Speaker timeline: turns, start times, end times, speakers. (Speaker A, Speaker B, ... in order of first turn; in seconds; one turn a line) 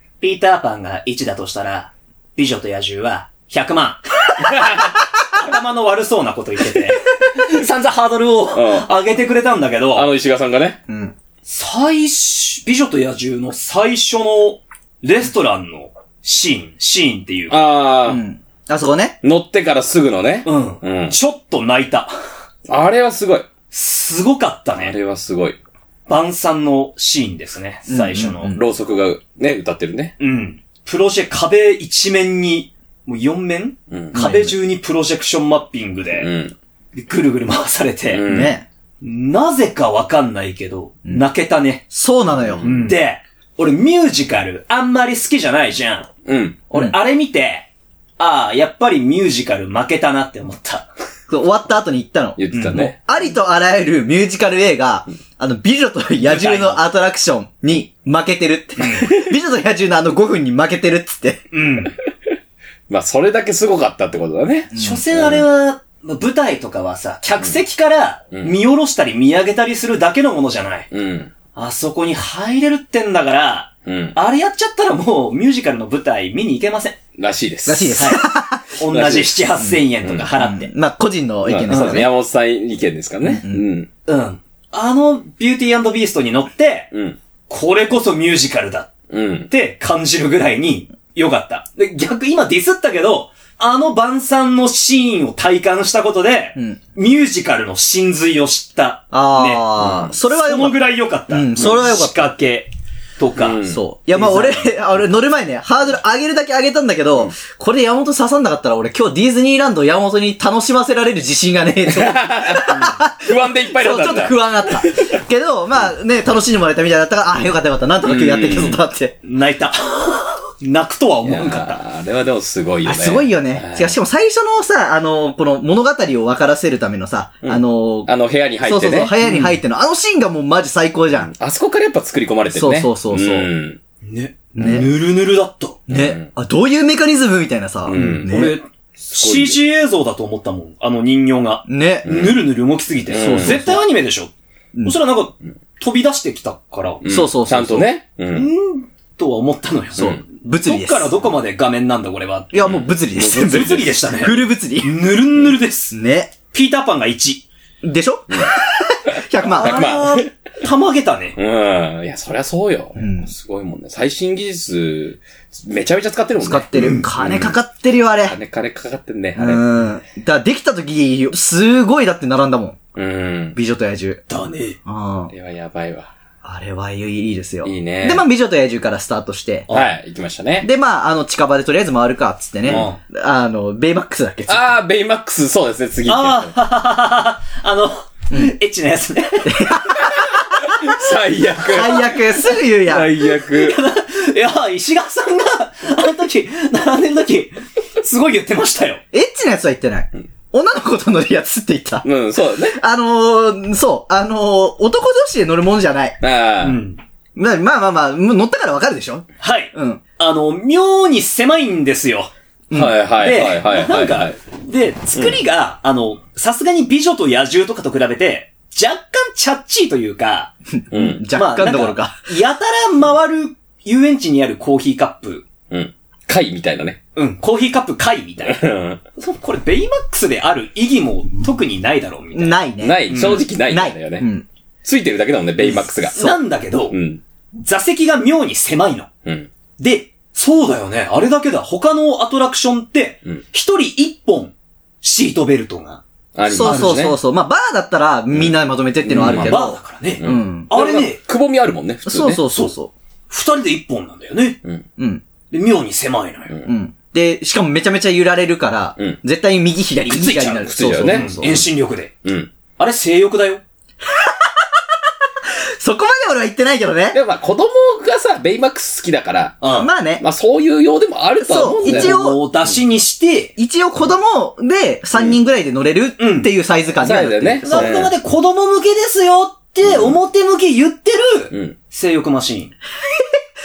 Speaker A: 0.2-10.1
Speaker B: 4.5-4.8
Speaker B: 8.5-8.9
Speaker B: 9.9-10.8
Speaker C: 10.9-11.1
Speaker A: 11.5-17.6
Speaker B: 17.5-18.2
Speaker C: 18.1-19.2
Speaker B: 19.2-21.2
Speaker A: 20.4-22.2
Speaker B: 22.7-23.5
Speaker A: 23.7-25.0
Speaker B: 24.8-25.6
Speaker A: 26.1-28.6
Speaker C: 27.9-28.6
Speaker B: 28.5-30.1
Speaker A: 30.2-36.3
Speaker B: 33.9-34.4
Speaker C: 34.1-34.6
Speaker B: 36.2-36.5
Speaker A: 36.9-38.2
Speaker B: 38.1-38.6
Speaker C: 38.3-38.6
Speaker A: 39.0-41.9
Speaker C: 41.9-42.9
Speaker B: 42.4-42.7
Speaker A: 42.6-46.1
Speaker B: 46.3-46.6
Speaker A: 46.7-47.7
Speaker A: 48.2-50.9
Speaker C: 51.3-61.4
Speaker B: 52.4-53.0
Speaker A: 52.5-52.9
Speaker A: 56.2-56.8
Speaker A: 58.8-59.1
Speaker A: 61.5-62.0
Speaker B: 62.9-65.5
Speaker C: 64.7-65.0
Speaker A: 64.7-70.9
Speaker B: 70.9-71.3
Speaker A: 71.5-77.0
Speaker B: 73.9-74.2
Speaker B: 77.2-78.1
Speaker C: 77.7-78.6
Speaker A: 78.0-78.3
Speaker A: 78.8-80.7
Speaker B: 78.9-80.3
Speaker C: 80.4-82.1
Speaker B: 81.5-83.9
Speaker A: 81.7-82.0
Speaker C: 83.2-83.6
Speaker A: 84.1-86.9
Speaker A: 87.5-88.9
Speaker B: 89.1-89.5
Speaker A: 89.5-104.8
Speaker C: 99.1-102.3
Speaker B: 99.8-100.2
Speaker B: 103.4-103.8
Speaker C: 103.7-119.2
Speaker B: 111.9-114.4
Speaker B: 118.0-118.8
Speaker A: 119.2-121.8
Speaker B: 121.2-124.0
Speaker C: 122.9-128.1
Speaker B: 127.4-129.1
Speaker C: 128.6-131.3
Speaker A: 129.2-129.6
Speaker B: 131.2-133.8
Speaker C: 132.5-133.5
Speaker A: 134.0-135.9
Speaker C: 134.6-134.9
Speaker B: 135.9-136.3
Speaker C: 135.9-138.6
Speaker B: 137.9-138.5
Speaker A: 137.9-144.3
Speaker B: 139.1-139.6
Speaker C: 141.7-142.1
Speaker B: 142.1-142.4
Speaker B: 143.1-143.7
Speaker C: 143.1-143.8
Speaker A: 144.8-147.0
Speaker B: 147.0-148.5
Speaker C: 147.1-147.9
Speaker A: 148.3-152.7
Speaker C: 150.0-151.1
Speaker C: 152.5-155.1
Speaker B: 152.6-154.2
Speaker A: 153.2-156.0
Speaker C: 155.9-156.3
Speaker A: 156.5-157.5
Speaker C: 157.8-160.1
Speaker B: 159.1-160.3
Speaker A: 159.4-161.4
Speaker B: 161.4-167.6
Speaker C: 163.0-163.3
Speaker C: 166.4-168.4
Speaker A: 166.8-167.1
Speaker B: 168.3-169.8
Speaker C: 169.3-172.8
Speaker B: 172.9-173.6
Speaker C: 173.6-174.2
Speaker A: 174.3-174.8
Speaker C: 174.8-175.3
Speaker B: 175.3-176.1
Speaker C: 176.4-179.7
Speaker B: 177.6-178.3
Speaker B: 179.7-180.7
Speaker C: 180.6-184.8
Speaker A: 182.7-183.0
Speaker B: 184.5-186.5
Speaker A: 186.1-189.8
Speaker C: 189.5-191.0
Speaker B: 190.6-193.8
Speaker C: 191.6-193.2
Speaker A: 193.2-199.0
Speaker C: 199.1-202.1
Speaker B: 202.0-202.8
Speaker C: 202.7-206.2
Speaker B: 206.2-206.8
Speaker A: 206.6-207.0
Speaker C: 207.4-210.0
Speaker A: 209.4-212.3
Speaker B: 212.7-214.4
Speaker A: 213.2-220.5
Speaker C: 220.9-222.2
Speaker B: 220.9-221.3
Speaker A: 221.3-225.5
Speaker B: 225.7-227.0
Speaker A: 227.2-233.4
Speaker B: 228.5-229.0
Speaker C: 232.3-234.5
Speaker B: 232.8-234.3
Speaker B: 234.8-236.4
Speaker A: 235.6-237.0
Speaker B: 236.9-237.2
Speaker A: 237.6-239.1
Speaker A: 239.8-246.0
Speaker B: 246.4-247.2
Speaker C: 246.5-250.7
Speaker A: 246.6-247.0
Speaker B: 249.1-249.6
Speaker A: 249.1-251.2
Speaker B: 250.2-252.4
Speaker C: 252.1-252.9
Speaker A: 253.3-254.6
Speaker C: 255.0-255.2
Speaker A: 255.5-256.5
Speaker C: 256.7-261.6
Speaker A: 260.1-262.1
Speaker B: 260.6-261.6
Speaker B: 262.2-262.5
Speaker A: 262.8-263.6
Speaker C: 264.1-264.7
Speaker C: 265.5-267.2
Speaker B: 267.1-269.6
Speaker A: 269.6-269.9
Speaker C: 269.7-270.2
Speaker B: 270.2-272.2
Speaker C: 271.4-272.4
Speaker A: 271.8-273.6
Speaker C: 273.6-277.9
Speaker A: 276.2-276.5
Speaker B: 277.0-278.1
Speaker A: 277.6-282.7
Speaker B: 279.9-280.2
Speaker C: 283.1-283.4